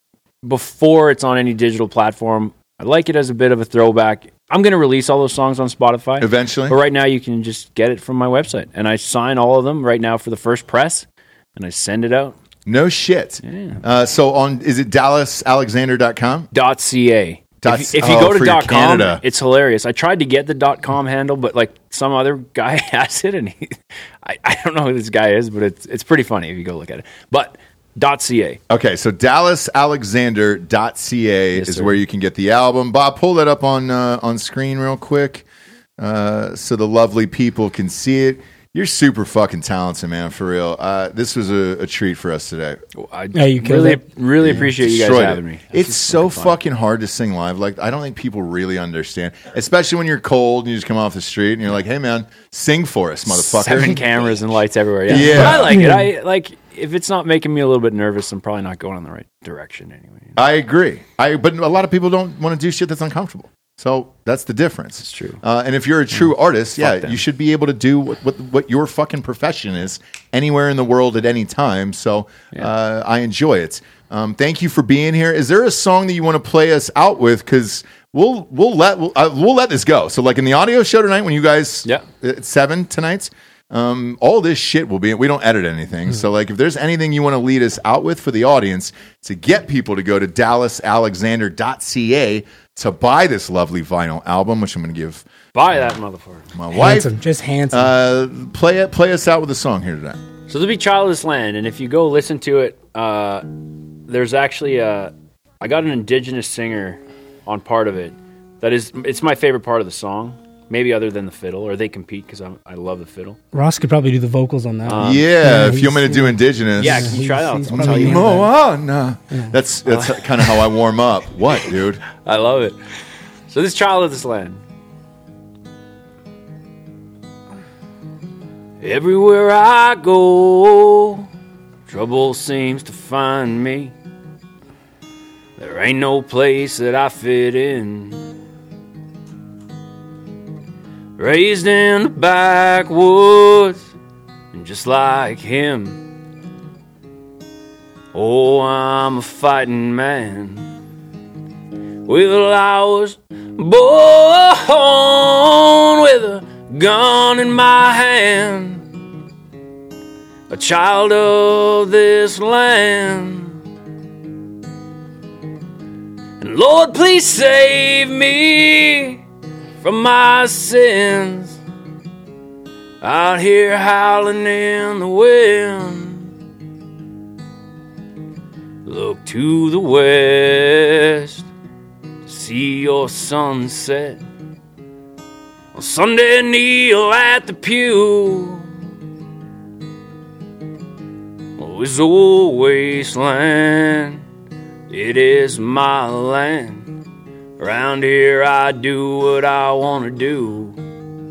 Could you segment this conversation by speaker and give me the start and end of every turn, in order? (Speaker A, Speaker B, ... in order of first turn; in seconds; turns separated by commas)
Speaker A: 0.4-12.4, Speaker B: 6.2-6.8, Speaker B: 12.7-16.5, Speaker A: 13.4-13.8, Speaker A: 16.5-28.6, Speaker B: 17.6-19.2, Speaker B: 28.7-35.5, Speaker A: 31.6-32.0, Speaker B: 36.0-42.8, Speaker A: 43.0-46.6, Speaker C: 43.4-44.6, Speaker B: 44.4-55.8, Speaker A: 53.3-60.4, Speaker C: 55.1-56.1, Speaker B: 60.4-95.2, Speaker A: 65.0-65.4, Speaker A: 66.8-67.2, Speaker A: 95.5-96.5, Speaker B: 96.5-97.1, Speaker C: 96.7-97.9, Speaker B: 97.7-100.2, Speaker A: 100.5-113.4, Speaker C: 113.5-118.5, Speaker A: 114.8-115.3, Speaker B: 115.0-117.2, Speaker A: 116.8-118.4, Speaker B: 117.7-122.0, Speaker A: 119.9-120.1, Speaker A: 122.2-122.8, Speaker A: 123.5-124.6, Speaker A: 128.8-131.3, Speaker A: 131.9-133.9, Speaker A: 135.6-138.2, Speaker A: 141.2-143.8, Speaker A: 144.5-146.0, Speaker A: 148.1-150.7, Speaker A: 152.1-158.8, Speaker A: 160.5-163.6, Speaker A: 166.4-169.2, Speaker A: 169.8-171.6, Speaker A: 173.0-176.3, Speaker A: 178.9-181.5, Speaker A: 182.2-184.2, Speaker A: 185.7-188.7, Speaker A: 191.6-194.2, Speaker A: 194.9-196.9, Speaker A: 197.6-200.8